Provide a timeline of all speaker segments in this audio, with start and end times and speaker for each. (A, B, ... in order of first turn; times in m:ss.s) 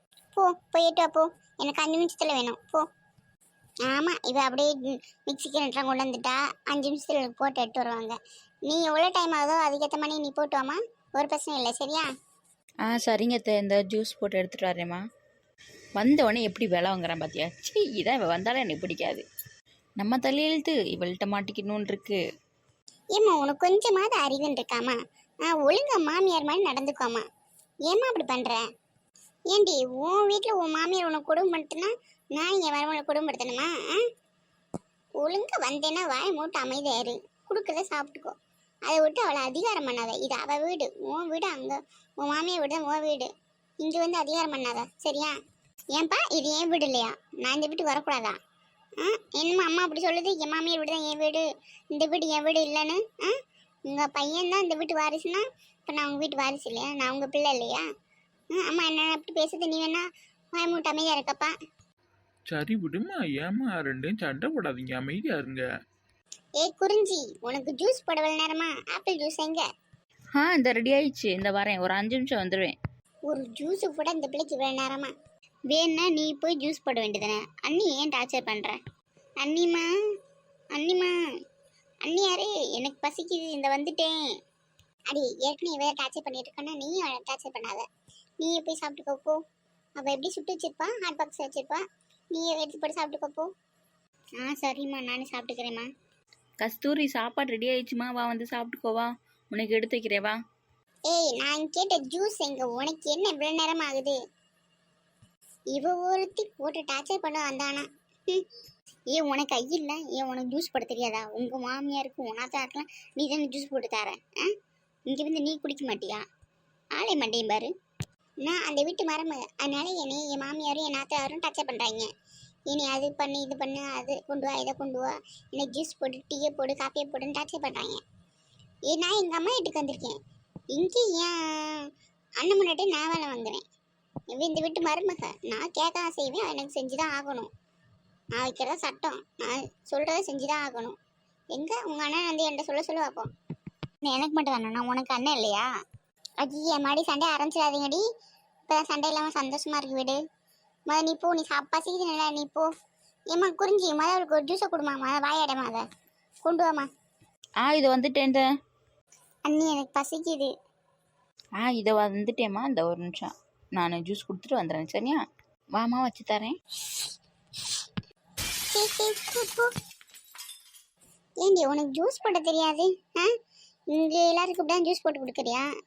0:00.3-0:02.8 A
0:03.9-0:08.2 A
0:08.7-0:12.1 A
0:12.8-0:15.0 B
0:16.0-0:19.2 B
0:20.0-0:22.2 B
0:23.2-0:25.0 A
0:25.5-0:27.2 A
0:27.9-0:28.6 A
0:29.5-0:34.0 A
0:35.2-0:38.3 A
0:38.9-0:43.3 A
0:43.8-0:45.3 A
0:45.9-0:48.4 A
0:49.0-0:53.3 A
0:53.9-0:57.8 A
0:58.6-1:00.0 A
1:00.6-1:01.5 A
1:02.5-1:05.6 C
1:06.6-1:09.6 A
1:10.4-1:12.8 B
1:13.3-1:15.1 A
1:15.7-1:18.8 A
1:19.4-1:19.9 A
1:20.8-1:21.1 A
1:22.1-1:24.1 A
1:25.1-1:27.8 A
1:28.4-1:29.4 A
1:30.0-1:31.8 A
1:32.4-1:33.5 A
1:34.4-1:35.9 A
1:36.6-1:40.4 B
1:41.1-1:44.2 A
1:45.7-1:48.4 A
1:49.1-1:54.5 A
1:55.1-1:56.2 A
1:57.0-1:57.7 A
1:58.4-2:02.1 A
2:02.7-2:08.0 A
2:08.9-2:10.2 A
2:10.7-2:11.9 A
2:12.4-2:13.6 A
2:14.3-2:17.5 A
2:18.4-2:21.0 A
2:21.5-2:23.3 A
2:24.0-2:25.7 A
2:26.4-2:28.0 A
2:28.7-2:30.2 A
2:30.9-2:32.7 A
2:33.3-2:35.8 A
2:36.4-2:36.9 A
2:37.6-2:38.5 B
2:39.5-2:40.5 A
2:41.6-2:45.2 B
2:45.8-2:46.6 B
2:48.7-2:49.7 A
2:51.4-2:53.3 A
2:53.9-2:55.7 A